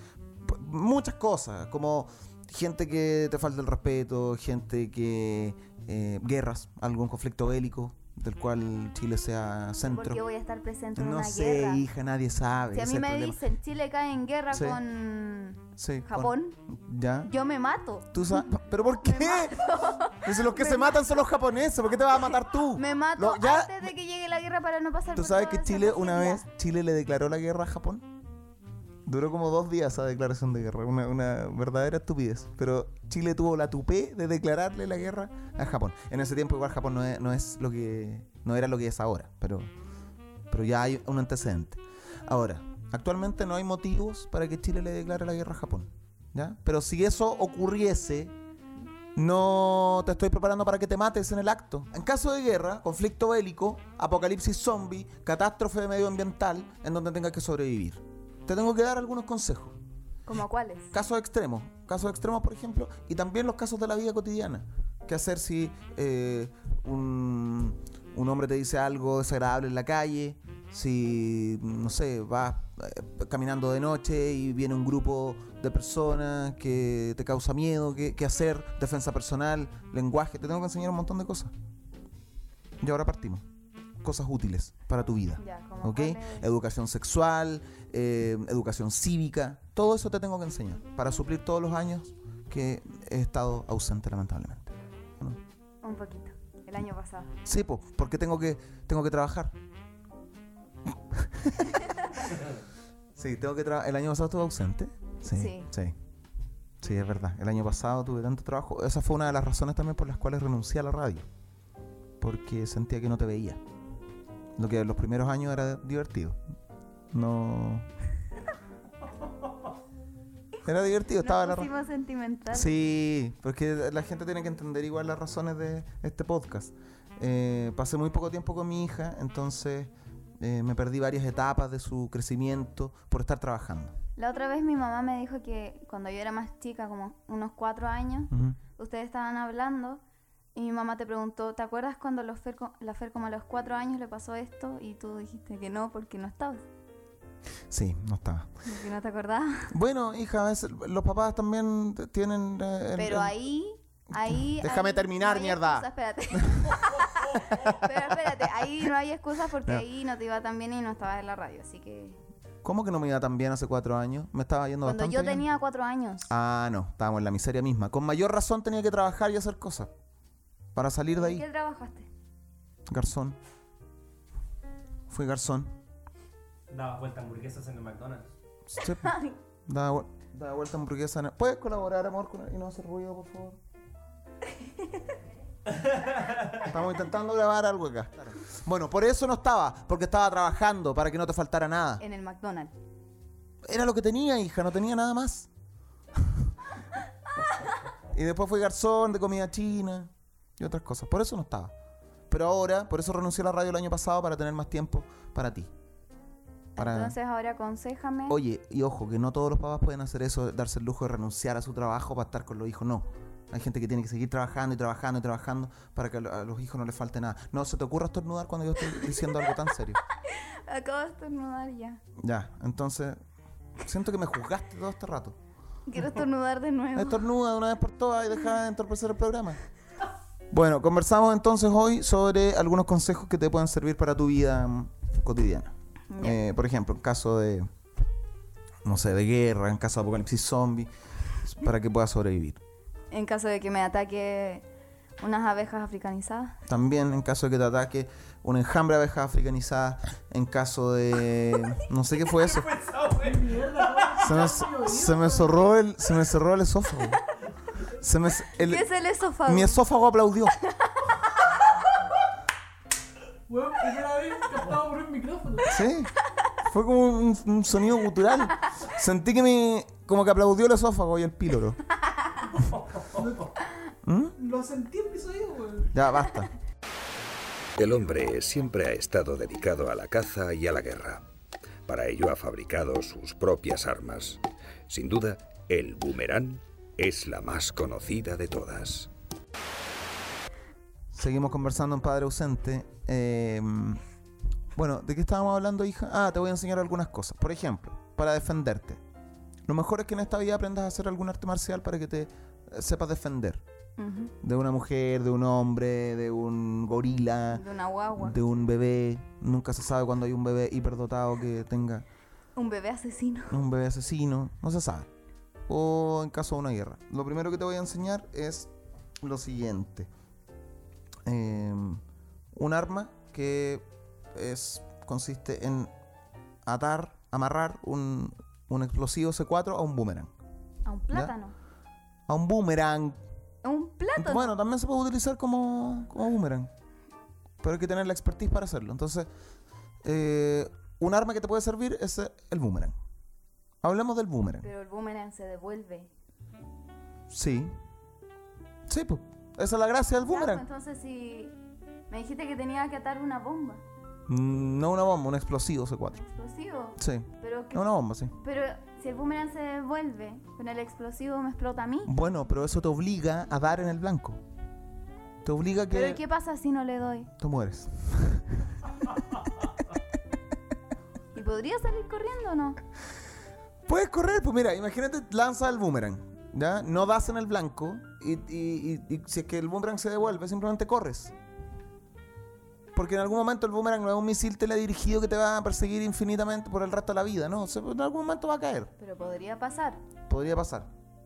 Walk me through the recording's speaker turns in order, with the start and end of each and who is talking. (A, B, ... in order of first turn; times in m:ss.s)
0:00.4-0:10.2 A
0:09.8-0:11.8 B
0:11.0-0:13.4 A
0:12.7-0:16.6 B
0:14.5-0:14.8 A
0:15.8-0:17.3 A
0:17.2-0:21.1 B
0:18.1-0:23.9 A
0:22.7-0:26.4 B
0:25.1-0:28.0 A
0:29.0-0:39.7 A
0:40.5-0:48.3 A
0:49.1-0:59.8 A
1:00.2-1:00.9 B
1:00.9-1:21.5 A
1:22.8-1:23.4 A
1:24.0-1:35.4 A
1:25.4-1:26.5 B
1:35.8-1:37.3 B
1:37.4-1:39.5 A
1:40.9-1:42.0 A
1:43.1-1:46.0 A
1:45.3-1:45.7 B
1:46.8-1:51.3 A
1:52.2-1:53.6 A
1:54.6-1:56.4 A
1:57.1-1:57.9 A
2:00.6-2:01.7 A
2:01.2-2:02.8 B
2:02.5-2:14.0 A
2:14.2-2:20.0 B
2:18.3-2:18.6 A
2:20.5-2:26.6 B
2:27.7-2:28.5 A
2:28.6-2:29.7 B
2:29.7-2:33.3 A
2:33.0-2:42.2 B
2:34.1-2:36.8 A
2:37.5-2:38.4 A
2:42.6-2:45.5 A
2:44.8-2:46.3 B
2:46.3-2:49.9 A
2:50.7-2:51.4 A
2:51.1-2:52.1 B
2:52.9-2:53.4 A
2:55.1-2:55.7 A
2:56.7-2:58.3 C
2:58.7-2:59.1 A
2:59.0-2:59.3 B
2:59.6-3:03.6 A
3:05.7-3:06.6 C
3:06.6-3:12.0 A
3:12.0-3:12.7 B
3:13.6-3:15.5 A
3:18.1-3:21.7 A
3:22.3-3:25.7 A
3:26.7-3:28.4 B
3:26.8-3:27.2 A
3:28.3-3:40.0 A
3:39.0-3:39.5 B
3:40.2-3:42.0 B
3:42.2-3:43.2 A
3:43.8-3:45.4 A
3:45.9-3:47.2 B
3:47.0-3:49.6 A
3:50.5-3:57.7 A
3:56.1-3:56.4 B
3:58.8-4:00.9 A
4:01.4-4:02.6 A
4:03.1-4:04.6 B
4:05.2-4:06.6 B
4:06.7-4:12.7 A
4:12.4-4:14.3 C
4:13.2-4:15.6 D
4:14.2-4:17.2 A
4:18.0-4:18.9 A
4:18.6-4:19.8 B
4:19.4-4:20.5 A
4:23.5-4:25.8 D
4:25.7-4:26.1 A
4:26.6-4:31.8 A
4:33.1-4:33.5 D
4:34.0-4:34.4 A
4:34.4-4:35.9 D
4:35.9-4:36.5 A
4:37.8-4:41.2 E
4:41.9-4:49.1 E
4:51.1-4:54.0 A
4:54.7-4:59.0 A
4:59.6-5:03.6 A
5:04.0-5:04.3 B
5:04.4-5:07.6 A
5:07.5-5:08.4 B
5:08.2-5:12.0 A
5:12.6-5:13.6 B
5:13.5-5:15.1 A
5:15.7-5:18.7 A
5:19.2-5:20.1 A
5:21.2-5:22.0 A
5:22.5-5:25.9 A
5:26.6-5:30.3 A
5:30.8-5:31.5 B
5:32.3-5:33.2 A
5:33.6-5:34.5 B
5:34.2-5:36.7 A
5:37.6-5:39.3 A
5:40.0-5:42.9 A
5:43.8-5:44.6 A
5:44.6-5:46.1 B
5:47.3-5:47.7 A
5:48.9-5:50.6 A
5:50.2-5:51.5 B
5:52.1-5:53.8 B
5:54.3-5:56.2 A
5:56.1-6:02.1 B
5:57.0-5:58.3 A
6:02.0-6:04.4 A
6:05.4-6:06.2 A
6:05.9-6:07.3 B
6:07.4-6:08.8 A
6:11.3-6:12.8 B
6:13.8-6:21.3 A
6:22.9-6:28.9 A
6:29.0-6:30.0 B
6:30.3-6:30.9 A